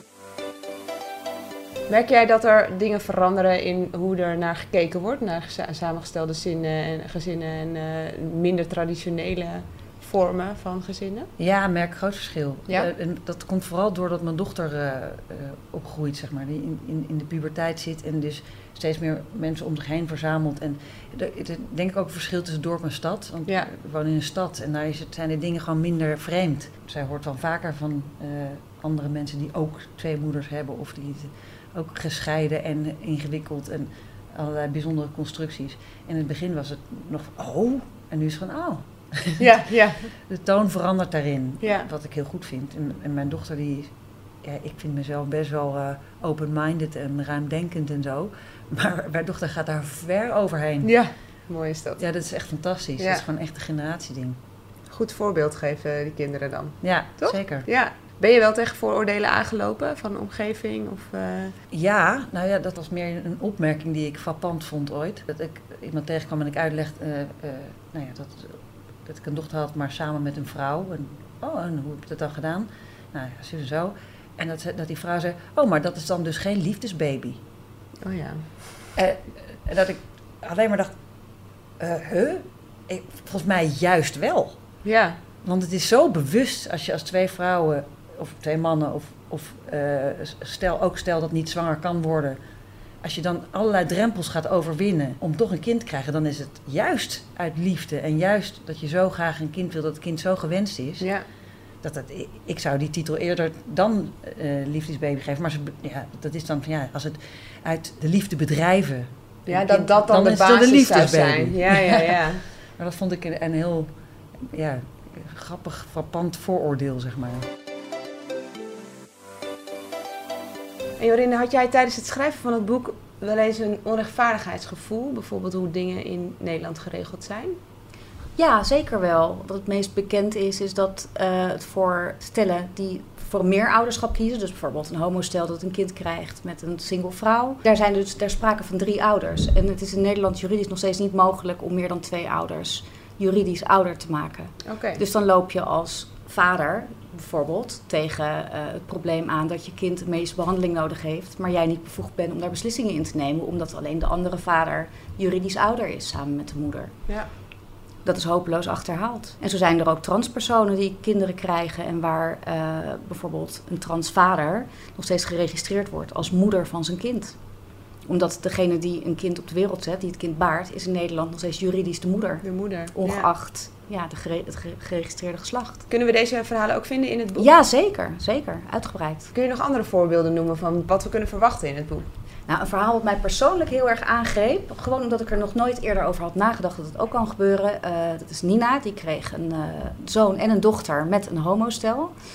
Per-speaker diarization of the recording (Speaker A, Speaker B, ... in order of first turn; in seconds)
Speaker A: 1.9-11.3, 39.4-40.1, 41.6-41.9, 50.8-52.0, 54.9-61.5, 78.0-78.8, 84.8-85.2, 101.0-101.2, 109.5-112.5, 121.0-127.6, 144.6-145.0, 172.4-173.3, 175.9-177.5, 179.3-182.1
Speaker B: 11.4-51.0, 52.0-54.4, 56.8-57.7, 61.7-77.4, 78.9-80.9, 81.8-84.6, 85.4-92.4, 93.0-101.1, 101.8-117.5
Speaker C: 128.4-157.1, 158.0-167.4, 168.1-175.8, 177.4-179.3, 182.5-192.1